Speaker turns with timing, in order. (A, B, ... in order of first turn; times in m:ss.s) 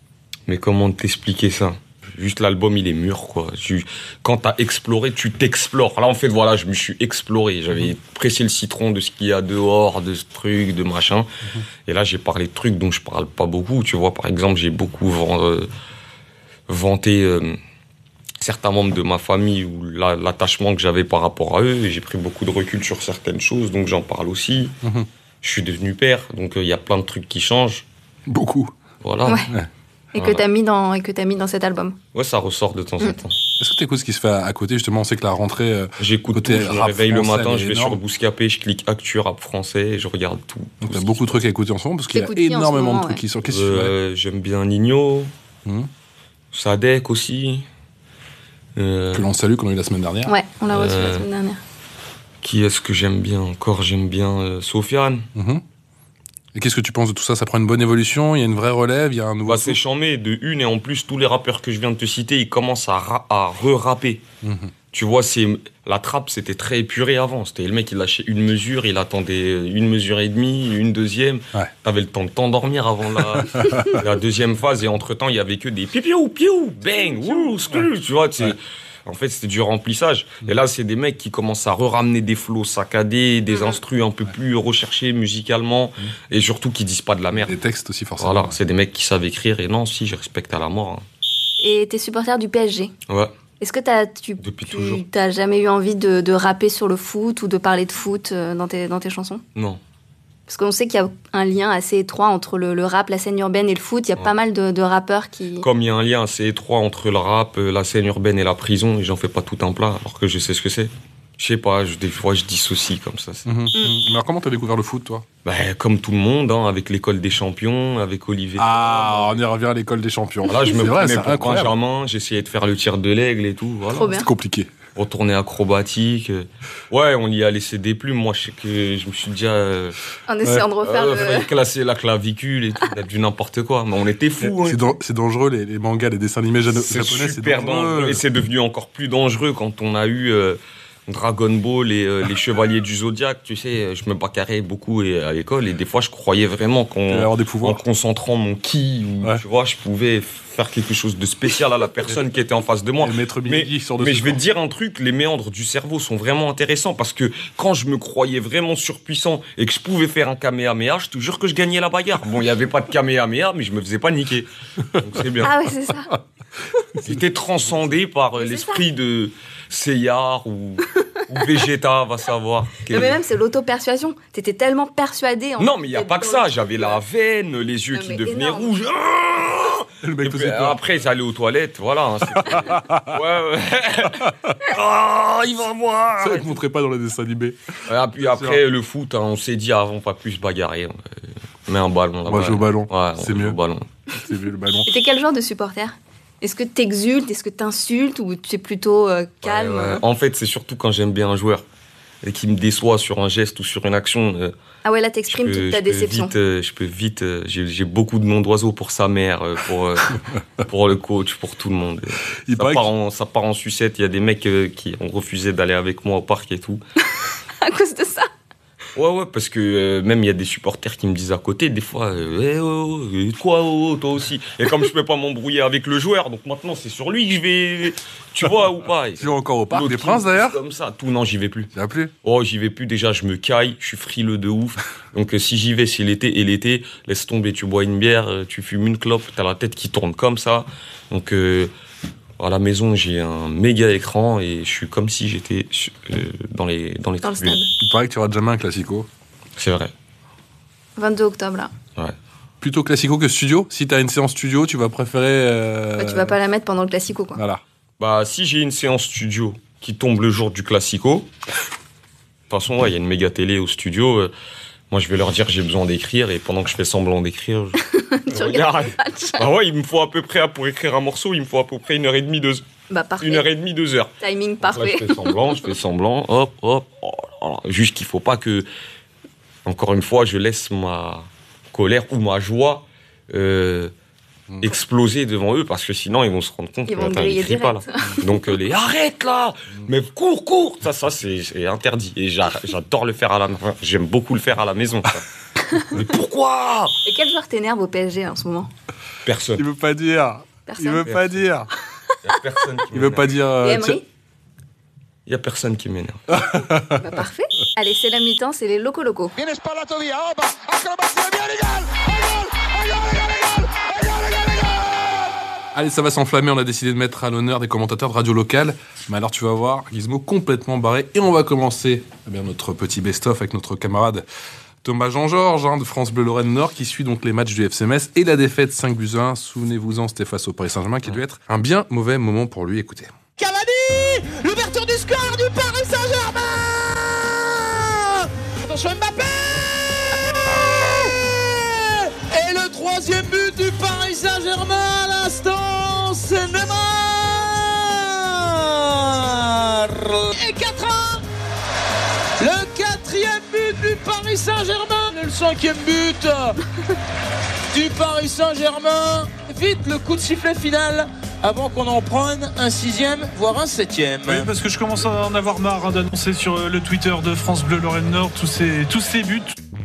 0:00.5-0:11.3 A
0:11.9-0:15.7 A
0:16.7-0:17.6 A
0:18.4-0:24.8 A
0:25.4-0:27.9 A
0:28.3-0:28.7 B
0:29.0-0:29.5 A
0:30.1-0:32.0 C
0:30.2-0:30.4 A
0:32.1-0:33.4 A
0:33.6-0:38.0 B
0:36.0-0:41.3 A
0:40.8-0:43.9 B
0:42.1-0:43.2 C
0:43.5-0:45.3 A
0:46.5-0:47.7 A
0:48.8-0:49.3 A
0:49.1-0:50.3 B
0:50.3-0:51.6 C
0:50.7-0:51.3 A
0:52.4-0:55.3 A
0:55.4-0:55.6 B
0:56.5-0:59.8 B
0:59.5-1:04.2 A
1:04.4-1:04.7 B
1:04.9-1:27.6 A
1:13.5-1:14.0 B
1:27.3-1:28.6 B
1:28.2-1:31.0 A
1:31.6-1:32.9 C
1:33.6-1:39.4 C
1:34.4-1:35.0 A
1:39.6-1:39.8 A
1:40.5-1:45.7 C
1:45.6-1:53.5 A
1:53.5-1:55.3 B
1:55.4-1:58.7 A
1:58.6-2:01.8 B
2:00.5-2:04.2 A
2:04.0-2:04.3 C
2:04.1-2:04.7 B
2:05.0-2:10.0 A
2:10.3-2:11.5 C
2:10.8-2:14.8 A
2:14.4-2:18.2 B
2:16.7-2:45.6 A
2:27.1-2:27.8 B
2:33.0-2:34.4 B
2:45.4-2:46.1 C
2:47.0-2:53.2 A
2:48.4-2:48.8 C
2:52.9-2:57.0 C
2:55.6-3:06.6 A
2:57.9-2:58.7 C
3:00.0-3:00.8 B
3:02.4-3:03.2 B
3:06.2-3:07.6 B
3:07.9-3:11.1 A
3:08.2-3:08.6 B
3:11.7-3:13.9 A
3:12.3-3:13.6 B
3:14.1-3:14.9 B
3:14.9-3:20.0 C
3:19.4-3:21.6 A
3:22.2-3:24.5 A
3:24.8-3:26.3 C
3:25.3-3:36.8 A
3:32.5-3:32.9 B
3:37.6-3:38.3 C
3:39.0-3:51.7 A
3:49.2-3:50.6 B
3:51.8-3:52.1 B
3:52.2-4:01.7 A
4:02.4-4:07.6 A
4:07.2-4:07.7 C
4:07.8-4:09.1 B
4:09.6-4:09.9 A
4:11.0-4:11.7 C
4:12.6-4:16.4 B
4:16.0-4:17.4 C
4:17.4-4:17.6 B
4:18.0-4:21.3 A
4:22.5-4:24.3 A
4:24.9-4:32.6 A
4:27.9-4:29.5 C
4:32.9-4:33.5 C
4:33.2-4:38.7 A
4:34.2-4:35.4 C
4:39.6-4:43.9 A
4:44.6-4:55.2 A
4:46.9-4:48.2 C
4:55.8-4:57.0 A
4:57.0-4:58.7 C
4:59.2-4:59.6 A
4:59.6-5:01.7 B
5:00.7-5:01.0 C
5:01.0-5:01.4 A
5:02.2-5:03.4 A
5:02.9-5:04.0 B
5:03.6-5:04.0 C
5:05.3-5:06.3 A
5:06.4-5:07.0 B
5:07.0-5:09.3 C
5:09.4-5:15.0 D
5:15.7-5:24.2 B
5:24.8-5:33.1 B
5:33.4-5:39.8 D
5:40.4-5:51.2 D
5:52.4-5:56.6 D
5:57.7-6:04.5 D
6:04.2-6:09.6 E